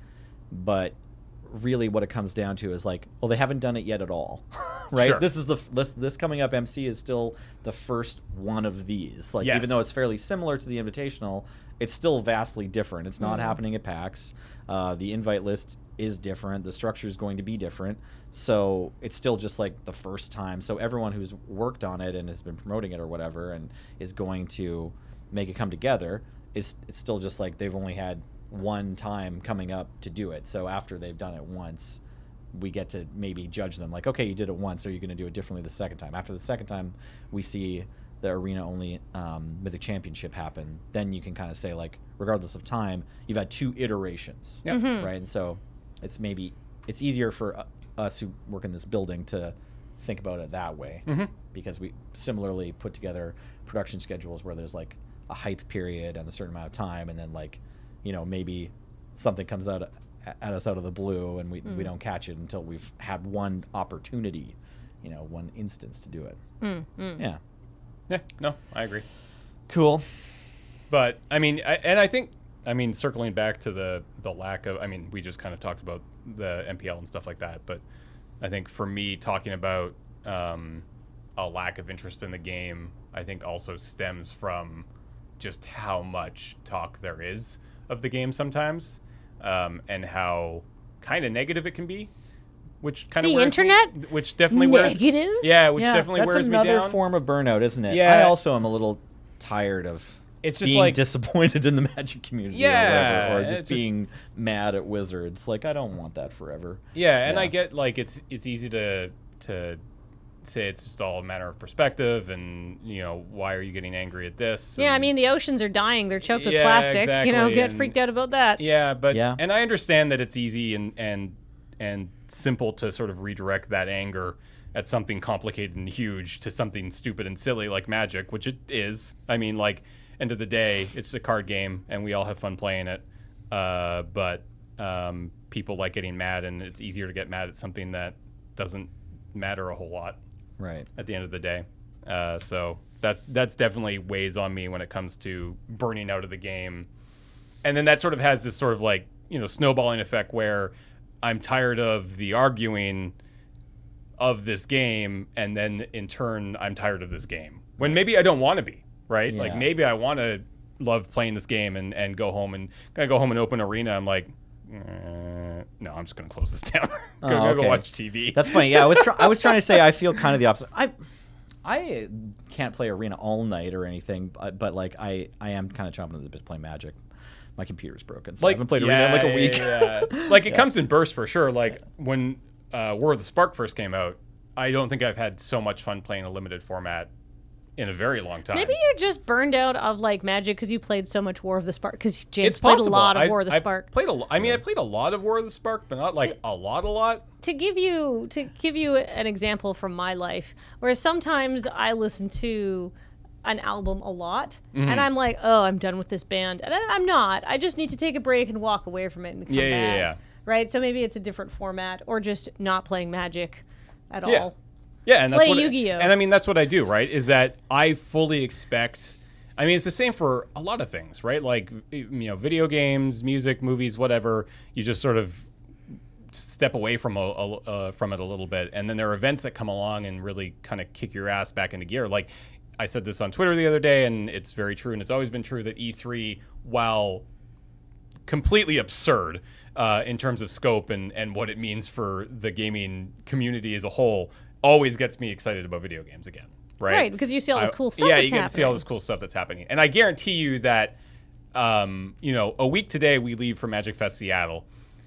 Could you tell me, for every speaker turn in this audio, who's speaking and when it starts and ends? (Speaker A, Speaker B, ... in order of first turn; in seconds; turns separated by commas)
Speaker A: 0.5-32.0, Speaker B: 5.0-5.2, Speaker B: 9.4-9.8, Speaker C: 13.2-13.5, Speaker A: 32.5-66.4, Speaker B: 44.6-44.9, Speaker C: 44.7-45.1, Speaker B: 51.1-51.3, Speaker C: 66.6-67.2, Speaker B: 68.1-69.0, Speaker A: 69.7-70.0, Speaker B: 70.9-77.8, Speaker B: 78.4-80.8, Speaker B: 81.4-84.9, Speaker B: 85.4-92.1, Speaker B: 92.8-97.0, Speaker C: 93.2-93.9, Speaker C: 94.5-95.5, Speaker A: 95.8-107.5, Speaker B: 97.9-98.4, Speaker B: 100.4-101.0, Speaker B: 102.5-103.9, Speaker B: 107.0-109.8, Speaker B: 110.4-115.1, Speaker C: 114.8-118.6, Speaker B: 116.3-118.0, Speaker B: 118.6-140.2, Speaker A: 119.1-119.4, Speaker A: 140.6-140.9, Speaker B: 141.0-146.9, Speaker B: 147.6-153.1, Speaker B: 154.2-169.6, Speaker A: 159.3-159.7, Speaker A: 167.2-170.9, Speaker A: 171.7-177.0, Speaker A: 177.6-180.7, Speaker B: 178.4-187.1, Speaker B: 187.8-188.8, Speaker C: 188.5-193.9, Speaker B: 192.4-197.2, Speaker C: 197.4-202.9, Speaker C: 203.4-214.5, Speaker B: 204.7-205.1, Speaker B: 209.5-210.2, Speaker B: 215.1-225.5, Speaker C: 215.3-216.1, Speaker B: 226.3-237.2, Speaker B: 238.3-251.0, Speaker C: 246.9-248.8, Speaker B: 251.5-254.7